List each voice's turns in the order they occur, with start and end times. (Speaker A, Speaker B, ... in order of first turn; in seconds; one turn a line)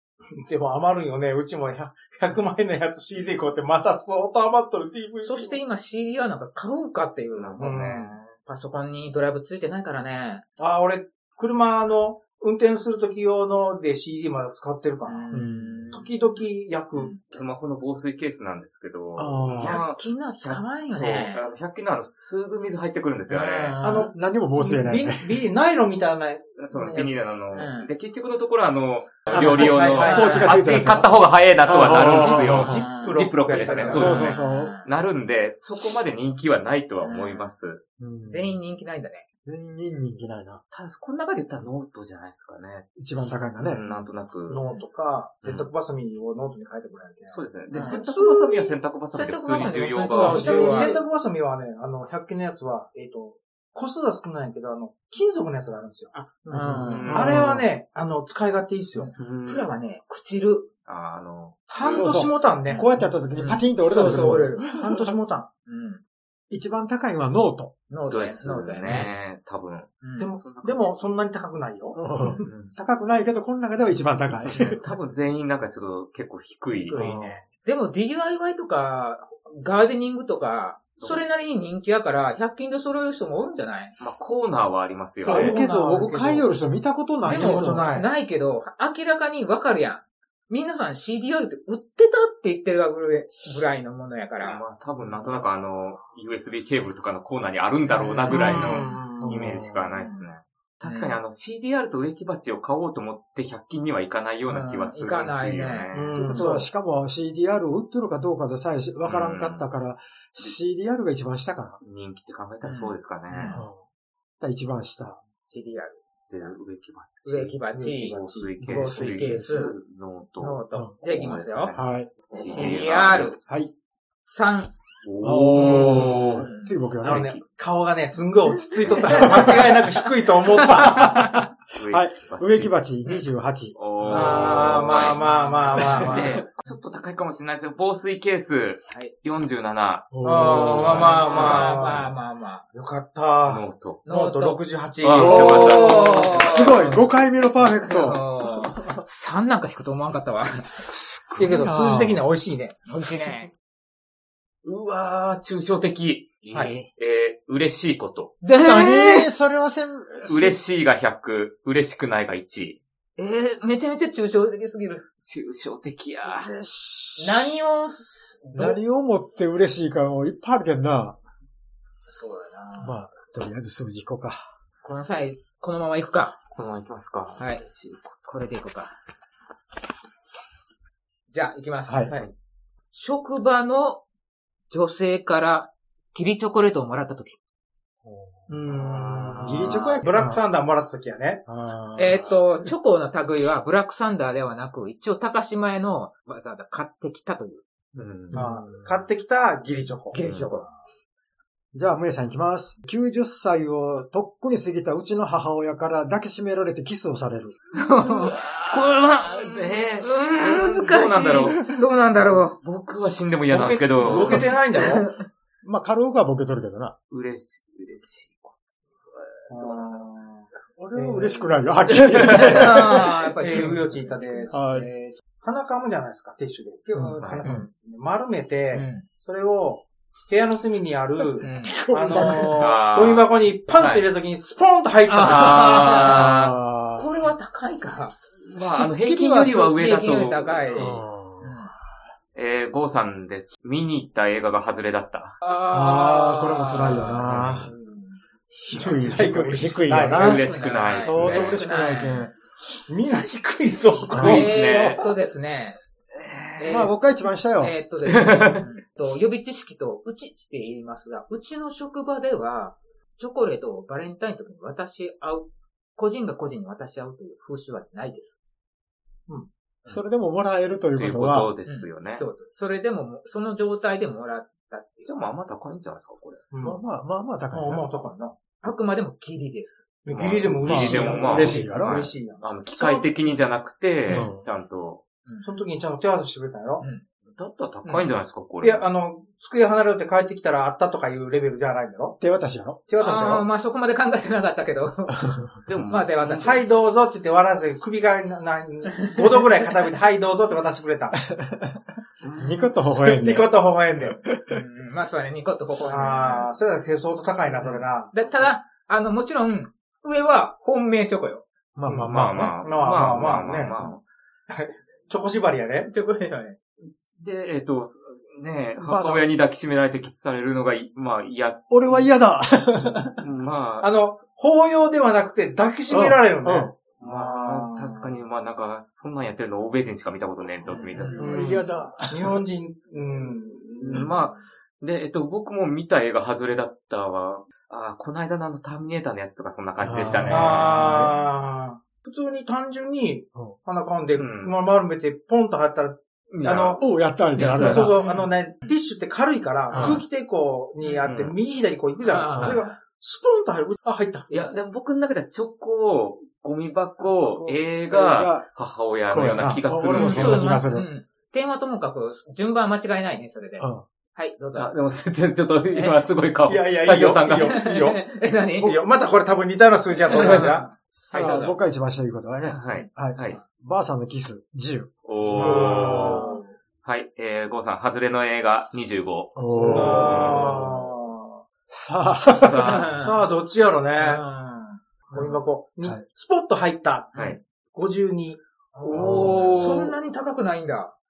Speaker A: 0.4-5.6
Speaker B: 5.2-7.8
Speaker C: 7.3-8.3
Speaker A: 7.6-8.2
Speaker B: 8.4-10.4
Speaker A: 10.6-15.3
Speaker B: 15.1-16.1
Speaker D: 15.3-15.9
Speaker A: 15.9-17.2
Speaker B: 16.9-17.2
Speaker C: 17.2-23.8
Speaker D: 19.2-19.8
Speaker B: 19.6-21.4
Speaker B: 23.3-24.1
Speaker A: 23.8-27.2
Speaker D: 24.0-25.4
Speaker C: 26.6-37.8
Speaker B: 27.5-27.9
Speaker A: 29.3-30.6
Speaker D: 29.3-32.9
Speaker B: 30.0-30.6
Speaker A: 31.9-34.3
Speaker B: 32.5-34.9
Speaker D: 33.9-34.8
Speaker B: 37.0-37.5
Speaker D: 38.0-38.6
Speaker B: 38.2-39.2
Speaker D: 39.5-40.6
Speaker C: 40.7-42.9
Speaker D: 43.0-43.8
Speaker C: 43.6-44.6
Speaker A: 44.5-48.8
Speaker C: 45.4-45.7
Speaker C: 47.3-50.8
Speaker B: 47.7-48.0
Speaker B: 49.1-51.0
Speaker A: 50.1-59.1
Speaker D: 50.2-51.0
Speaker B: 56.1-57.3
Speaker D: 56.5-57.7
Speaker C: 56.9-57.5
Speaker B: 59.0-60.7
Speaker C: 59.2-59.7
Speaker C: 60.9-62.2
Speaker A: 61.7-63.0
Speaker D: 61.9-65.2
Speaker B: 62.7-64.8
Speaker A: 64.7-65.5
Speaker B: 65.7-66.0
Speaker D: 66.5-67.7
Speaker B: 67.9-69.1
Speaker C: 68.1-71.0
Speaker B: 70.0-70.3
Speaker A: 70.2-72.0
Speaker D: 72.0-74.8
Speaker C: 72.4-72.7
Speaker C: 74.5-77.2
Speaker B: 76.7-84.0
Speaker D: 76.9-77.4
Speaker C: 81.0-81.2
Speaker C: 84.0-85.6
Speaker D: 85.2-87.9
Speaker B: 85.2-86.3
Speaker A: 85.3-86.4
Speaker B: 87.2-94.6
Speaker A: 87.3-88.1
Speaker C: 94.4-106.4
Speaker B: 97.9-99.0
Speaker A: 98.3-99.4
Speaker D: 99.2-100.0
Speaker B: 100.8-101.2
Speaker B: 104.5-105.9
Speaker A: 105.9-106.7
Speaker D: 106.2-111.8
Speaker C: 109.0-109.7
Speaker C: 111.8-113.6
Speaker B: 112.6-113.7
Speaker D: 113.5-113.8
Speaker D: 114.4-115.2
Speaker B: 115.5-116.6
Speaker C: 116.3-123.3
Speaker B: 117.2-119.8
Speaker A: 117.8-118.5
Speaker D: 118.6-119.7
Speaker B: 120.4-121.7
Speaker D: 121.7-122.1
Speaker B: 122.3-123.4
Speaker D: 123.5-123.7
Speaker B: 124.2-124.7
Speaker C: 125.0-126.5
Speaker D: 125.2-127.3
Speaker B: 125.6-126.7
Speaker C: 127.0-127.4
Speaker A: 127.0-131.4
Speaker C: 128.8-129.7
Speaker D: 128.8-129.7
Speaker B: 129.1-129.6
Speaker B: 130.4-131.5
Speaker C: 131.7-132.8
Speaker D: 131.9-134.8
Speaker C: 133.8-142.1
Speaker A: 134.1-136.4
Speaker B: 134.5-136.4
Speaker D: 140.1-141.2
Speaker A: 140.2-142.1
Speaker B: 140.8-142.7
Speaker A: 142.7-146.2
Speaker C: 143.4-144.0
Speaker B: 144.1-144.6
Speaker C: 145.0-146.8
Speaker D: 145.2-149.0
Speaker B: 145.3-147.1
Speaker B: 147.8-150.8
Speaker D: 150.9-152.2
Speaker A: 151.4-152.8
Speaker B: 152.9-153.5
Speaker C: 154.6-158.4
Speaker B: 156.4-156.9
Speaker B: 158.4-159.3
Speaker D: 158.6-160.6
Speaker C: 160.3-162.8
Speaker B: 163.2-165.1
Speaker C: 165.3-166.5
Speaker D: 166.2-167.6
Speaker B: 167.2-168.8
Speaker D: 168.5-171.2
Speaker B: 172.1-173.0
Speaker D: 172.8-174.5
Speaker B: 174.8-176.4
Speaker C: 176.5-178.2
Speaker B: 177.4-177.6
Speaker B: 178.3-178.9
Speaker B: 181.3-182.1
Speaker D: 181.9-182.1
Speaker B: 182.9-184.0
Speaker B: 184.7-187.4
Speaker D: 188.1-190.4
Speaker A: 188.5-191.4
Speaker C: 188.8-189.8
Speaker B: 189.7-190.0
Speaker D: 191.5-192.3
Speaker B: 192.0-197.6
Speaker C: 197.9-198.4
Speaker D: 198.3-199.0
Speaker A: 198.3-200.2
Speaker B: 200.1-200.7
Speaker C: 200.2-200.5
Speaker D: 201.7-207.6
Speaker B: 207.8-208.4
Speaker C: 208.0-211.6
Speaker B: 209.3-212.6
Speaker C: 212.6-214.5
Speaker A: 213.5-215.1
Speaker B: 214.8-215.2
Speaker D: 215.6-216.9
Speaker C: 217.1-220.1
Speaker A: 219.5-221.6
Speaker D: 220.8-223.8
Speaker C: 221.9-222.7
Speaker B: 222.2-224.5
Speaker A: 222.7-236.0
Speaker D: 224.5-224.9
Speaker D: 226.9-227.5
Speaker C: 227.2-227.4
Speaker B: 227.4-227.7
Speaker B: 228.7-229.1
Speaker B: 231.4-232.4
Speaker D: 231.4-232.7
Speaker C: 232.4-234.1
Speaker B: 235.1-238.2
Speaker C: 235.2-236.6
Speaker D: 236.0-237.1
Speaker C: 238.4-241.0
Speaker D: 238.6-239.8
Speaker B: 239.6-241.7
Speaker D: 240.7-241.6
Speaker C: 242.3-245.4
Speaker B: 245.4-248.0
Speaker D: 245.7-247.7
Speaker C: 247.2-247.7
Speaker D: 248.5-252.3
Speaker A: 248.7-250.4
Speaker C: 250.1-251.6
Speaker B: 250.2-252.3
Speaker A: 252.9-255.1
Speaker D: 254.1-254.5
Speaker C: 254.1-255.1
Speaker B: 254.2-255.8
Speaker C: 256.1-256.7
Speaker B: 256.6-256.9
Speaker D: 256.7-257.8
Speaker B: 257.6-268.4
Speaker C: 258.1-258.6
Speaker D: 269.9-271.5
Speaker C: 271.0-272.2
Speaker B: 271.7-275.1
Speaker C: 275.1-276.4
Speaker A: 276.5-276.8
Speaker D: 276.6-277.9
Speaker A: 277.5-278.4
Speaker B: 278.6-279.9
Speaker A: 280.1-283.1
Speaker C: 280.1-285.0
Speaker D: 280.6-282.0
Speaker D: 284.1-284.4
Speaker B: 285.3-285.6
Speaker A: 285.4-286.9
Speaker C: 287.3-288.9
Speaker B: 287.9-288.1
Speaker A: 288.6-292.2
Speaker D: 292.2-292.8
Speaker A: 292.9-293.5
Speaker B: 293.0-295.3
Speaker C: 295.7-296.4
Speaker B: 295.9-296.7
Speaker A: 296.2-301.2
Speaker B: 299.0-299.4
Speaker D: 301.3-301.8
Speaker D: 302.4-303.5
Speaker A: 303.0-304.2
Speaker D: 304.0-304.6
Speaker B: 304.5-306.5
Speaker A: 305.9-308.1
Speaker B: 307.6-311.4
Speaker D: 311.8-312.5
Speaker A: 311.9-313.8
Speaker C: 312.0-314.0
Speaker A: 314.5-315.9
Speaker B: 315.9-316.6
Speaker C: 316.8-322.1
Speaker D: 318.8-319.3
Speaker D: 321.7-323.2
Speaker C: 323.2-323.9
Speaker A: 323.8-328.2
Speaker D: 325.9-326.7
Speaker C: 327.0-331.4
Speaker B: 330.8-331.2
Speaker D: 331.1-332.4
Speaker A: 331.2-334.2
Speaker C: 333.8-341.1
Speaker D: 339.8-340.9
Speaker A: 340.3-346.8
Speaker B: 340.7-341.0
Speaker C: 344.2-344.6
Speaker C: 346.3-346.8
Speaker D: 346.8-347.9
Speaker C: 347.4-347.9
Speaker A: 347.4-354.3
Speaker B: 347.8-348.7
Speaker D: 349.7-350.0
Speaker C: 349.7-350.0
Speaker B: 350.8-351.1
Speaker C: 351.0-351.4
Speaker B: 352.0-352.8
Speaker C: 354.3-360.5
Speaker D: 357.4-358.5
Speaker D: 359.1-360.9
Speaker B: 359.9-364.7
Speaker D: 363.6-363.9
Speaker C: 364.6-367.6
Speaker A: 366.5-368.0
Speaker B: 367.4-368.8
Speaker A: 368.6-370.7
Speaker B: 370.1-371.6
Speaker D: 371.1-376.2
Speaker C: 372.5-373.4
Speaker C: 375.1-376.3
Speaker A: 375.3-376.4
Speaker B: 375.4-376.5
Speaker C: 376.8-380.7
Speaker D: 379.4-380.7
Speaker A: 379.6-381.4
Speaker D: 381.7-382.8
Speaker C: 382.3-383.0
Speaker B: 382.6-383.2
Speaker A: 382.9-384.2
Speaker B: 384.0-385.4
Speaker A: 385.1-387.1
Speaker A: 387.7-389.9
Speaker B: 388.8-390.9
Speaker C: 388.9-389.9
Speaker D: 388.9-389.7